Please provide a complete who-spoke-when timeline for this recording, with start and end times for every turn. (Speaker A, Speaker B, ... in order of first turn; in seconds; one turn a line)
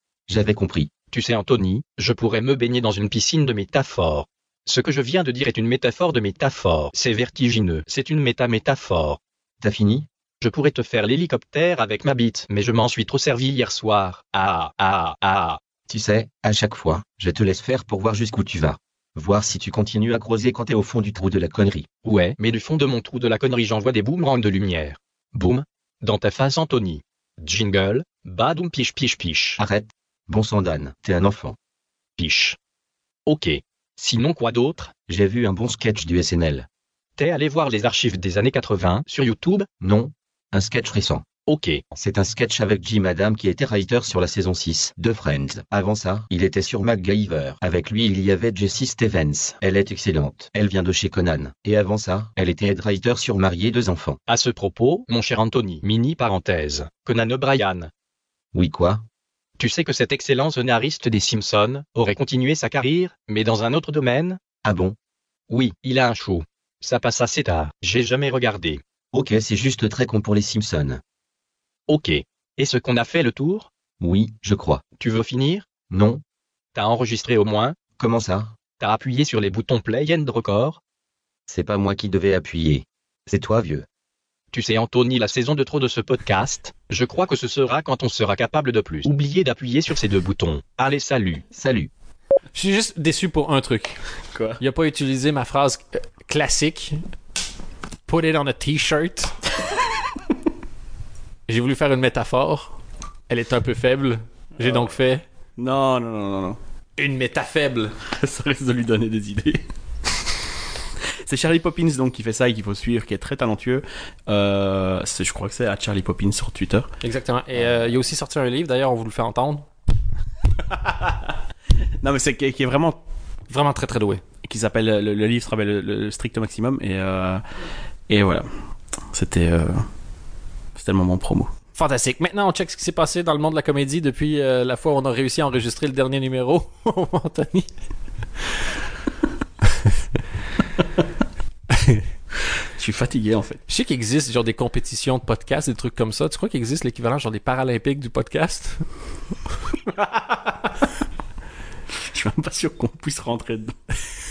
Speaker A: 0.3-0.9
Speaker B: 1.1-9.2
Speaker A: 9.6-10.1
Speaker B: 10.4-15.6
Speaker A: 15.9-21.9
Speaker B: 22.0-29.6
Speaker A: 29.6-31.6
Speaker B: 32.2-32.6
Speaker B: 33.2-34.9
Speaker A: 35.1-36.7
Speaker B: 37.2-39.7
Speaker A: 39.8-41.2
Speaker B: 41.5-41.8
Speaker A: 41.9-54.2
Speaker B: 54.3-57.9
Speaker A: 58.5-59.0
Speaker B: 59.6-64.4
Speaker A: 64.6-65.0
Speaker B: 65.5-68.8
Speaker A: 69.1-71.0
Speaker B: 71.9-73.7
Speaker A: 74.0-74.8
Speaker B: 75.0-75.7
Speaker A: 75.9-76.2
Speaker B: 76.7-77.8
Speaker A: 78.0-78.5
Speaker B: 78.8-80.8
Speaker A: 81.5-83.8
Speaker B: 84.5-91.4
Speaker A: 91.5-91.9
Speaker C: 92.5-94.0
Speaker D: 94.3-94.6
Speaker C: 94.6-97.0
Speaker C: 98.1-99.4
Speaker C: 101.5-102.7
Speaker C: 103.3-105.2
Speaker D: 105.6-106.6
Speaker C: 107.0-108.0
Speaker D: 108.1-109.6
Speaker D: 111.2-116.9
Speaker C: 117.0-119.7
Speaker D: 120.6-121.3
Speaker D: 122.0-123.0
Speaker C: 123.5-124.2
Speaker D: 124.4-127.4
Speaker D: 128.1-128.5
Speaker D: 129.1-129.8
Speaker D: 130.7-131.5
Speaker C: 131.7-137.7
Speaker D: 142.8-143.6
Speaker C: 143.7-148.8
Speaker D: 152.1-153.8